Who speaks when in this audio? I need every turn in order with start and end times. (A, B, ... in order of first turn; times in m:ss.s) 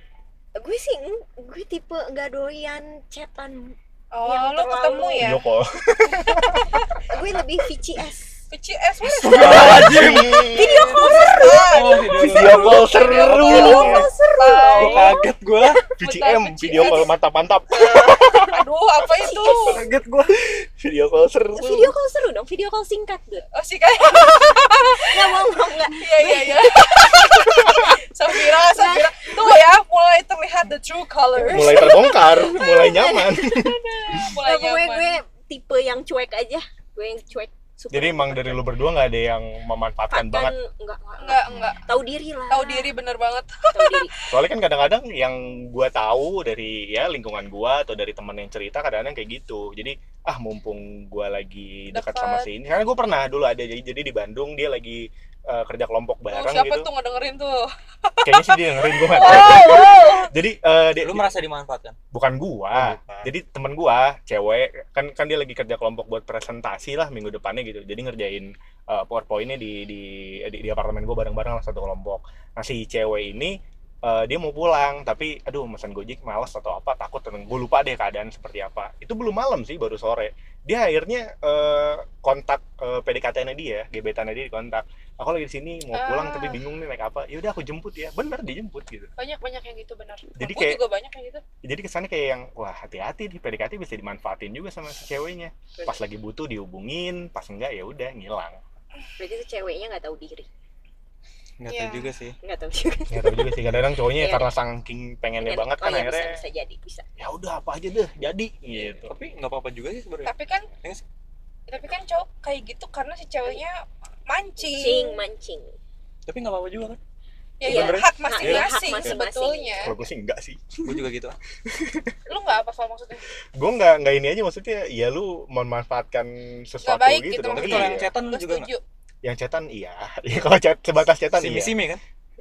0:00.6-0:05.4 A
0:04.1-0:05.4 B
0:05.2-0:06.8 C
0:06.4-0:06.8 B
0:07.1-0:08.3 A
0:08.5-0:15.2 B
0:09.0-0:14.1 D
0:09.3-0:10.9 C
0:10.5-0:12.2 A
0:12.2-0:14.1 C
0:12.9-0:15.3 A
0:14.7-0:15.8 D
0:16.0-0:18.6 C
0:16.0-0:17.1 B
0:16.7-0:17.1 A
0:17.8-0:18.3 A
0:18.4-0:19.8 B
0:19.2-0:19.8 A
0:19.6-0:20.4 D
0:20.4-0:21.9 C
0:21.6-0:23.4 A
0:23.5-0:32.4 B
0:25.0-0:27.8 A
0:28.5-0:29.6 A
0:31.5-0:34.3 C
0:31.5-0:33.5 A
0:33.0-0:35.2 B
0:34.2-0:38.6 A
0:37.9-0:40.5 C
0:40.1-0:43.0 A
0:41.2-0:41.8 B
0:41.5-0:41.9 C
0:42.5-0:44.3 B
0:43.7-0:44.1 A
0:44.3-0:56.9 C
0:51.9-0:52.5 B
0:56.3-1:00.3 B
0:58.2-1:01.3 C
1:01.0-1:02.0 D
1:02.1-1:29.1 C
1:02.7-1:03.3 D
1:25.9-1:26.6 B
1:29.2-1:31.4 B
1:30.4-1:30.8 C
1:31.6-1:38.6 C
1:39.2-1:40.5 A
1:41.6-1:42.4 D
1:41.7-1:42.1 B
1:42.4-1:43.5 A
1:43.1-1:46.4 C
1:44.2-1:44.5 A
1:45.4-1:47.0 A
1:47.2-1:49.1 C
1:49.0-1:51.0 D
1:50.2-1:50.7 B
1:51.7-1:55.2 B
1:54.6-1:55.7 A
1:56.2-1:57.0 D
1:57.6-1:59.9 B
1:57.6-1:59.9 A
1:57.6-1:59.2 D
1:59.8-2:00.9 C
2:00.8-2:01.4 D
2:01.7-2:02.1 C
2:02.3-2:03.2 B
2:03.6-2:08.1 C
2:06.8-2:08.8 B
2:07.5-2:08.7 D
2:09.2-2:11.8 C
2:11.3-2:12.0 D